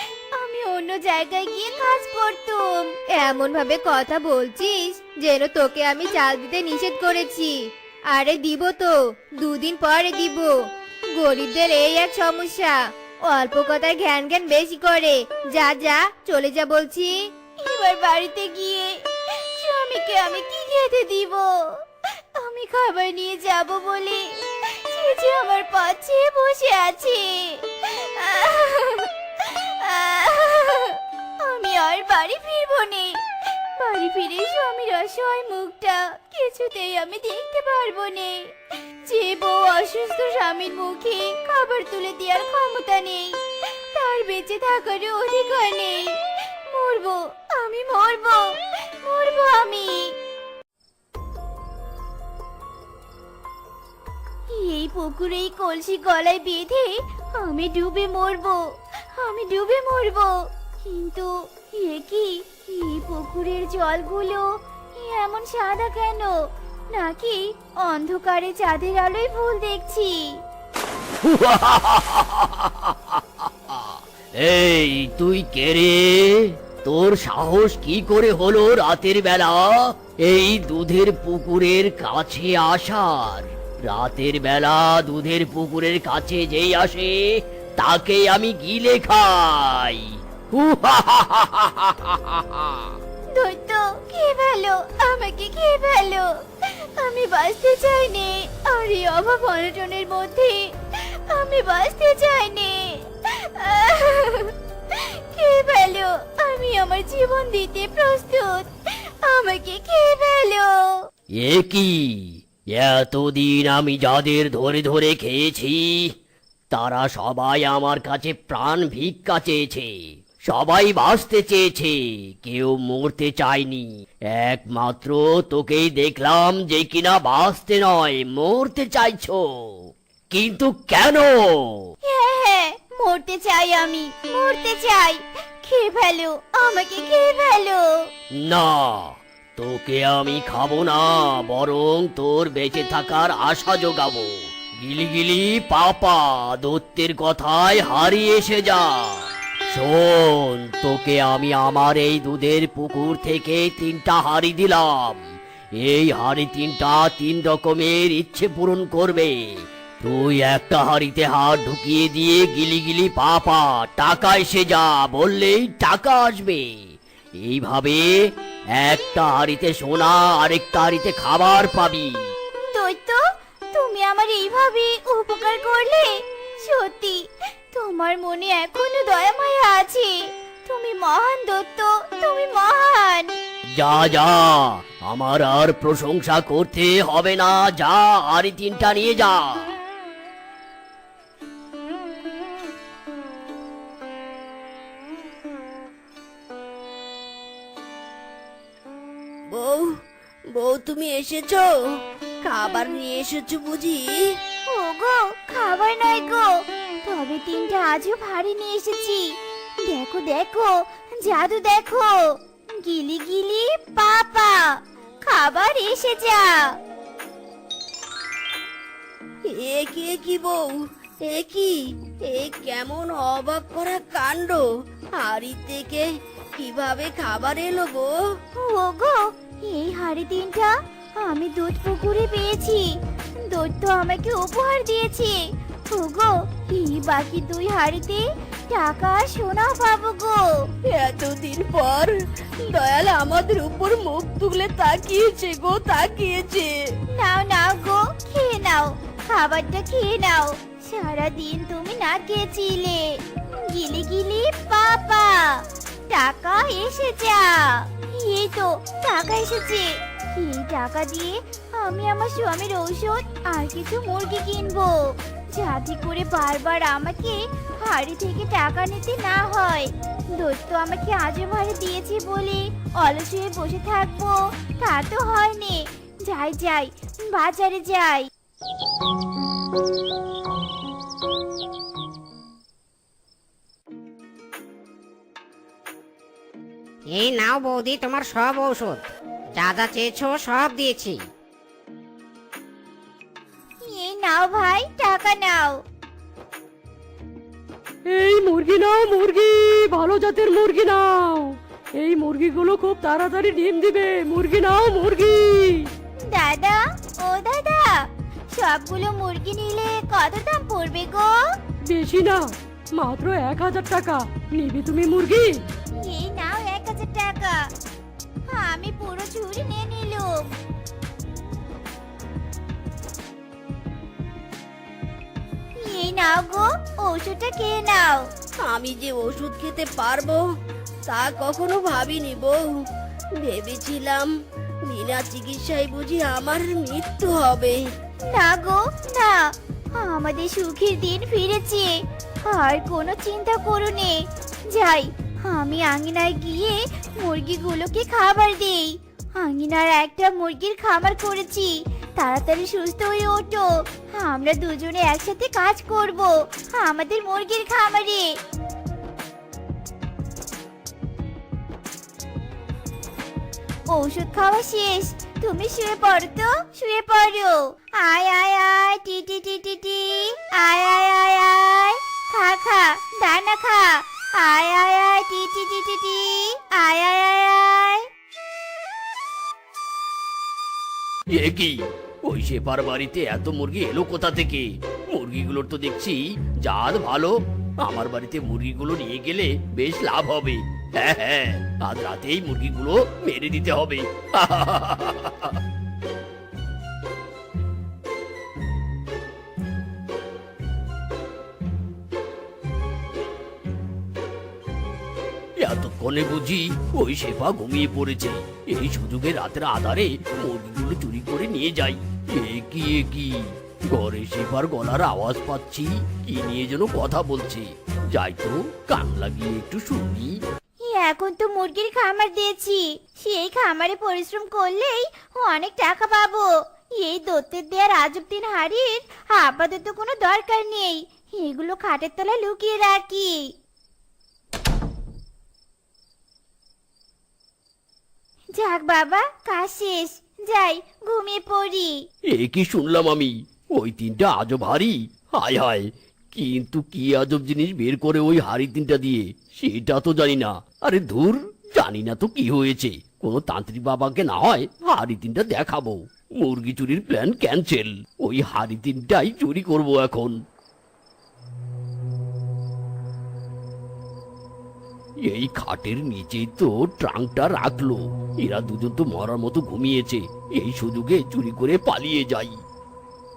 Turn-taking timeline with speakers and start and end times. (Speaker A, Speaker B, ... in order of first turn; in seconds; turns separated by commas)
Speaker A: 0.3-3.0, Speaker B: 3.1-10.5, Speaker B: 11.1-17.2, Speaker A: 17.6-21.5, Speaker A: 22.2-33.2, Speaker A: 33.8-38.5, Speaker A: 39.1-43.4, Speaker A: 43.9-46.2, Speaker A: 46.7-50.1, Speaker A: 54.5-58.6, Speaker A: 59.1-66.3, Speaker A: 66.9-70.3, Speaker C: 71.2-92.9, Speaker A: 93.3-110.9, Speaker C: 111.4-116.1, Speaker C: 116.7-131.9, Speaker A: 132.1-137.8, Speaker C: 138.3-155.2, Speaker C: 155.8-172.3, Speaker A: 172.7-173.2, Speaker A: 173.7-183.3, Speaker C: 183.7-189.7, Speaker D: 199.5-199.9, Speaker D: 200.5-201.7, Speaker D: 202.4-204.3, Speaker A: 204.7-209.3, Speaker A: 209.9-212.2, Speaker A: 212.8-214.7, Speaker A: 215.2-216.7, Speaker D: 219.5-224.6, Speaker D: 225.2-228.1, Speaker A: 228.6-235.4, Speaker A: 235.9-240.5, Speaker D: 240.9-246.8, Speaker A: 247.2-278.3, Speaker E: 287.1-289.0, Speaker E: 289.6-291.2, Speaker A: 293.9-295.8, Speaker F: 298.1-305.9, Speaker A: 306.2-307.9, Speaker A: 308.5-311.4, Speaker F: 311.9-315.6, Speaker A: 316.0-317.6, Speaker A: 318.5-320.5, Speaker A: 325.8-328.3, Speaker D: 328.6-330.4, Speaker D: 331.1-332.7, Speaker D: 333.4-334.3, Speaker D: 334.8-337.8, Speaker A: 338.3-339.4, Speaker A: 339.9-358.3, Speaker A: 363.9-378.1, Speaker C: 381.3-395.6, Speaker C: 405.6-420.4, Speaker A: 420.8-426.5, Speaker A: 427.0-433.4, Speaker A: 438.6-441.9, Speaker C: 442.3-460.4, Speaker C: 465.3-472.6